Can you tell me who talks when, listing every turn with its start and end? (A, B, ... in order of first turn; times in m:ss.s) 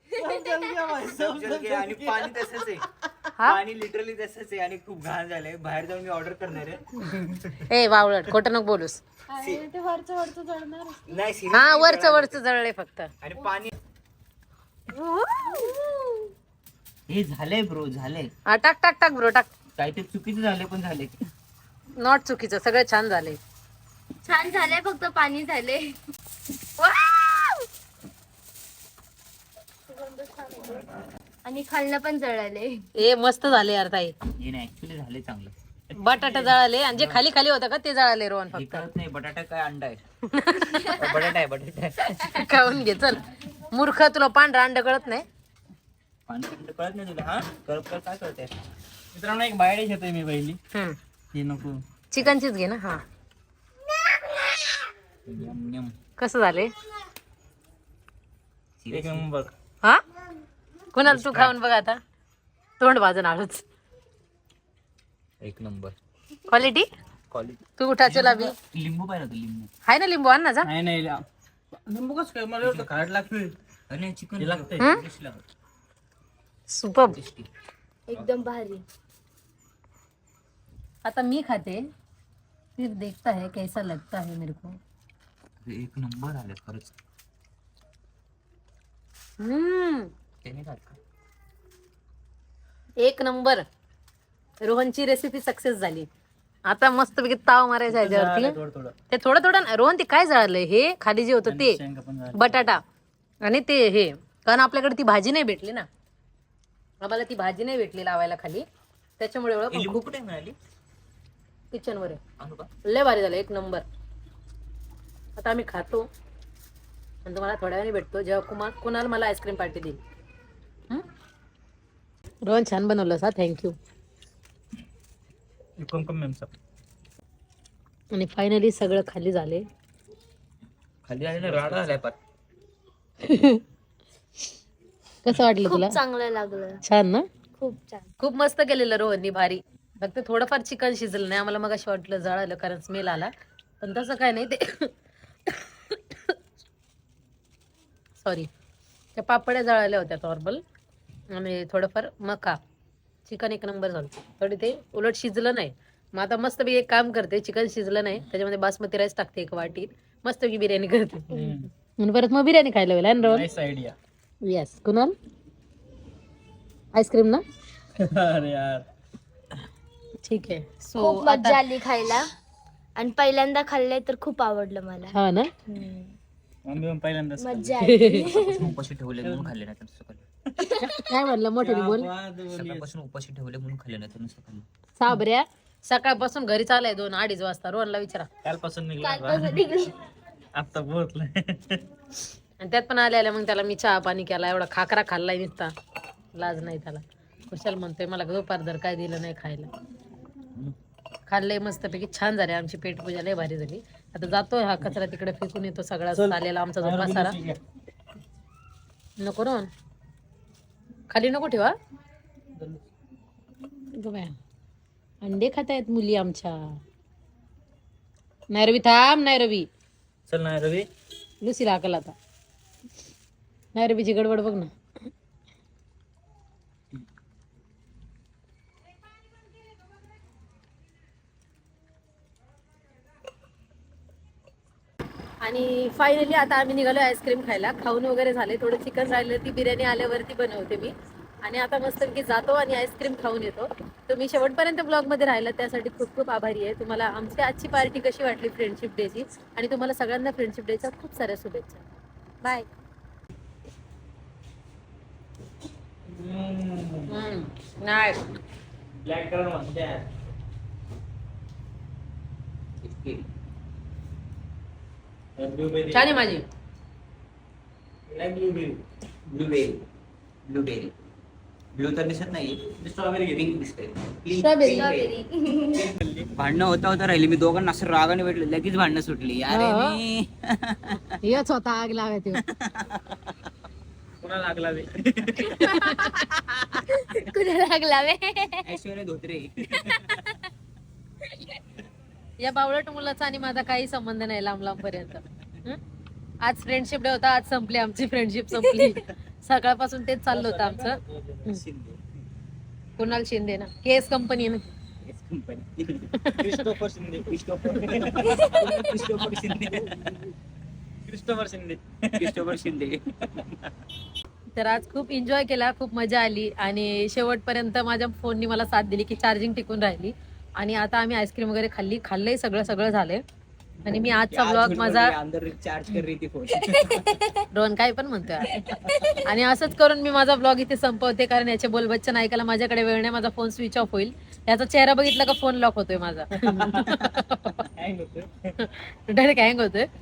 0:00.1-0:02.8 A
0:00.8-0:02.9 B
0:03.4-0:06.9 B
0:07.6-0:09.0 C
0:09.3-0:11.1 D
0:11.1-0:12.4 B
0:11.5-0:13.1 C
0:13.2-0:13.7 B
0:14.9-0:15.8 C
0:15.4-0:16.3 D
0:17.1-0:18.3 B
0:18.5-0:19.5 C
0:19.8-0:21.3 B
0:22.0-0:23.4 C
0:24.2-0:26.0 D
0:26.8-0:27.6 D
0:29.9-0:30.9 D
0:31.4-0:32.8 D
0:33.0-0:34.1 C
0:34.4-0:35.5 B
0:36.0-0:38.9 C
0:37.0-0:37.2 B
0:38.5-0:40.0 B
0:40.3-0:41.1 C
0:40.8-0:42.5 B
0:42.3-0:45.2 C
0:46.3-0:48.5 B
0:49.1-0:50.6 A
0:51.3-0:51.8 A
0:52.1-0:53.0 C
0:55.3-0:56.0 B
0:56.2-0:56.7 C
0:58.8-0:59.2 B
0:58.9-0:59.5 A
1:00.9-1:02.0 C
1:01.0-1:01.5 B
1:02.8-1:03.6 C
1:05.4-1:06.0 B
1:06.5-1:06.9 C
1:07.3-1:09.7 B
1:07.8-1:08.6 C
1:09.9-1:10.7 C
1:10.6-1:11.2 A
1:11.9-1:13.6 A
1:12.6-1:12.9 B
1:13.9-1:15.4 B
1:14.4-1:14.9 A
1:16.7-1:17.2 C
1:17.1-1:17.5 B
1:18.1-1:18.8 D
1:21.0-1:21.8 C
1:22.8-1:24.8 C
1:25.6-1:26.9 B
1:29.4-1:30.1 C
1:30.4-1:31.0 B
1:33.0-1:33.6 C
1:34.6-1:36.1 C
1:36.7-1:38.6 C
1:37.9-1:39.0 A
1:39.1-1:41.8 C
1:41.4-1:42.7 A
1:42.4-1:42.8 C
1:43.4-1:45.9 C
1:47.0-1:48.6 C
1:49.2-1:50.1 C
1:49.7-1:50.6 B
1:51.7-1:52.2 C
1:52.4-1:52.7 B
1:52.8-1:53.8 C
1:55.4-1:56.1 C
1:57.2-2:00.0 C
2:02.5-2:03.8 C
2:05.8-2:06.5 A
2:08.1-2:09.6 C
2:11.1-2:12.2 B
2:11.3-2:11.9 A
2:13.2-2:13.6 C
2:15.2-2:16.0 C
2:15.6-2:16.8 D
2:16.8-2:17.2 C
2:17.6-2:18.1 D
2:18.2-2:24.9 C
2:25.5-2:26.4 C
2:28.2-2:28.5 C
2:29.2-2:30.6 C
2:31.3-2:32.6 C
2:33.2-2:43.5 C
2:41.3-2:41.7 A
2:43.2-2:44.0 A
2:44.4-2:45.1 C
2:47.0-2:47.4 C
2:48.0-2:48.9 A
2:50.2-2:51.6 C
2:51.0-2:52.3 D
2:53.0-2:55.2 D
2:55.1-2:55.7 C
2:55.7-2:56.0 D
2:56.6-2:57.8 A
2:57.4-2:58.7 D
2:57.8-2:58.3 C
2:58.3-3:00.2 B
2:59.2-2:59.5 A
3:00.6-3:01.1 D
3:00.8-3:02.1 C
3:01.6-3:02.9 A
3:02.5-3:04.7 B
3:05.0-3:08.3 C
3:08.4-3:09.8 A
3:09.0-3:10.0 D
3:10.5-3:11.8 A
3:12.6-3:15.7 C
3:16.4-3:19.7 C
3:21.3-3:27.4 C
3:26.1-3:27.6 A
3:29.2-3:29.7 C
3:31.1-3:31.8 C
3:32.6-3:32.8 A
3:33.9-3:34.4 C
3:35.2-3:36.8 C
3:38.5-3:39.7 C
3:40.3-3:40.9 A
3:41.4-3:42.1 C
3:43.7-3:44.7 C
3:55.4-4:00.9 C
4:01.4-4:11.9 C
4:12.4-4:12.7 C
4:16.1-4:17.3 A
4:17.1-4:18.2 C
4:19.0-4:20.0 A
4:22.8-4:23.3 B
4:25.4-4:26.2 A
4:25.9-4:26.4 C
4:28.1-4:28.8 A
4:29.3-4:29.8 B
4:30.5-4:30.9 B
4:31.7-4:32.7 B
4:32.8-4:33.6 A
4:33.3-4:35.1 B
4:34.3-4:35.0 C
4:34.6-4:35.9 D
4:35.7-4:36.3 A
4:36.4-4:41.2 B
4:39.5-4:40.0 C
4:41.2-4:42.4 C
4:42.5-4:43.0 B
4:44.2-4:46.1 A
4:45.6-4:46.2 C
4:46.4-4:46.8 B
4:46.9-4:48.8 D
4:48.6-4:50.3 B
4:49.9-4:50.4 D
4:52.4-4:55.8 C
4:56.4-5:01.0 C
4:58.7-4:58.9 D
5:00.3-5:01.6 A
5:01.5-5:02.2 B
5:03.0-5:04.7 C
5:05.0-5:06.1 B
5:06.2-5:06.6 C
5:06.4-5:08.5 A
5:07.3-5:10.2 B
5:08.3-5:08.9 D
5:11.1-5:12.6 A
5:12.2-5:13.7 B
5:14.6-5:23.2 C
5:23.8-5:25.1 C
5:24.3-5:26.9 B
5:26.7-5:27.4 D
5:27.5-5:28.5 C
5:28.5-5:29.2 D
5:29.2-5:37.7 C
5:36.3-5:38.5 A
5:38.6-5:39.9 C